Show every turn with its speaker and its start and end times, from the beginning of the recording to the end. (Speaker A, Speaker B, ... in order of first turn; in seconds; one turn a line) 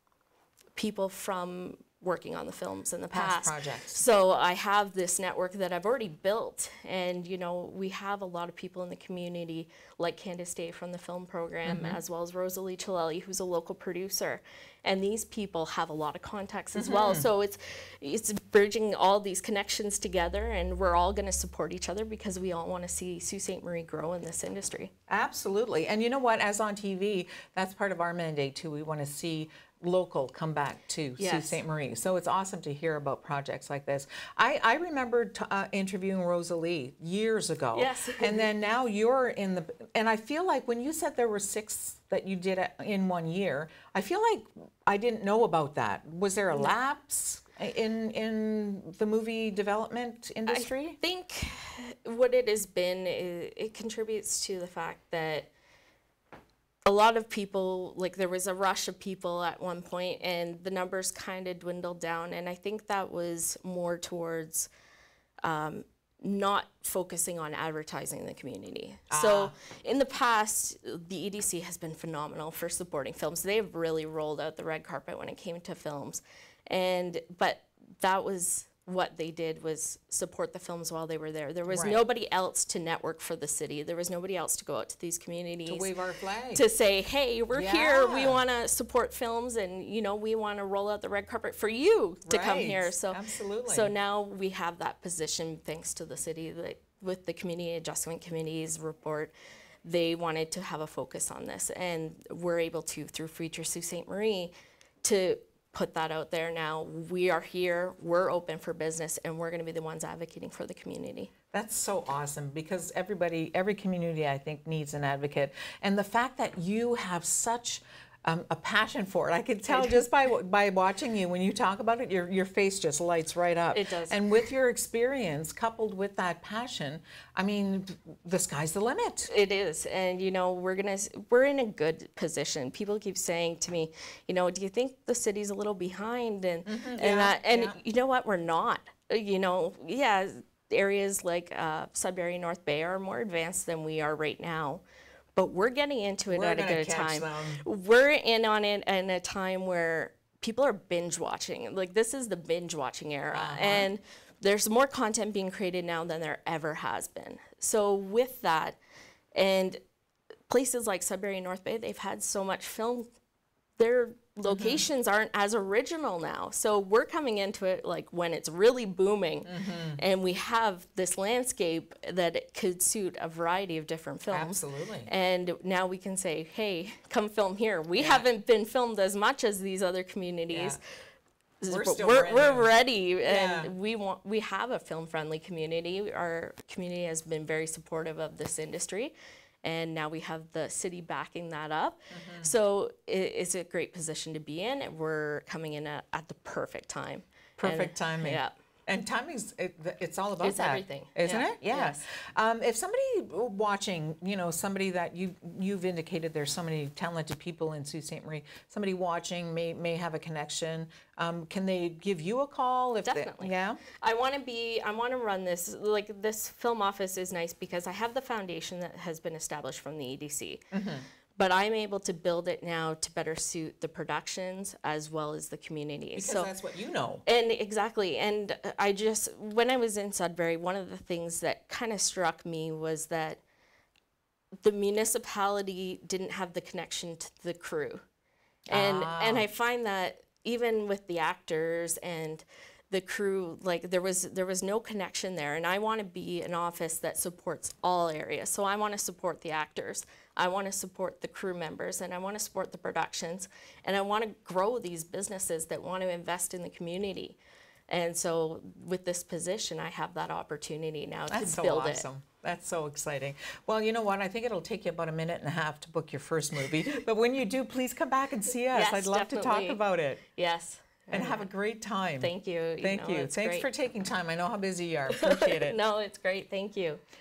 Speaker A: 0.7-24.9
Speaker B: 3.1-4.0
Speaker B: 11.6-12.0
Speaker B: 16.7-17.3
Speaker B: 25.1-51.0
Speaker A: 31.2-31.6
Speaker A: 37.7-38.5
Speaker A: 50.5-55.5
Speaker A: 56.8-64.7
Speaker A: 65.4-85.9
Speaker B: 69.1-69.5
Speaker B: 81.7-82.0
Speaker B: 85.7-86.6
Speaker A: 86.5-99.3
Speaker B: 87.5-88.4
Speaker B: 92.2-93.9
Speaker A: 99.8-104.5
Speaker A: 105.0-111.3
Speaker B: 111.5-129.3
Speaker A: 119.7-120.1
Speaker A: 123.7-124.2
Speaker A: 129.3-144.8
Speaker B: 136.7-137.8
Speaker A: 145.3-158.8
Speaker B: 146.3-147.6
Speaker B: 153.3-153.9
Speaker A: 159.3-159.8
Speaker A: 160.5-163.1
Speaker A: 163.8-180.8
Speaker B: 164.4-164.8
Speaker B: 169.4-170.0
Speaker B: 174.3-175.1
Speaker B: 177.9-178.2
Speaker B: 180.5-180.8
Speaker A: 181.6-198.5
Speaker B: 181.7-182.7
Speaker B: 183.2-183.7
Speaker B: 192.1-192.5
Speaker B: 197.6-213.8
Speaker A: 200.4-202.1
Speaker A: 213.0-220.6
Speaker B: 220.7-221.1
Speaker A: 221.3-226.5
Speaker B: 226.2-227.2
Speaker A: 227.2-233.4
Speaker A: 234.6-238.0
Speaker A: 238.7-257.4
Speaker B: 238.7-239.5
Speaker A: 257.9-262.1
Speaker B: 261.3-270.2
Speaker A: 268.7-269.8
Speaker A: 270.3-271.5
Speaker B: 271.1-275.8
Speaker A: 272.2-273.7
Speaker A: 275.1-277.0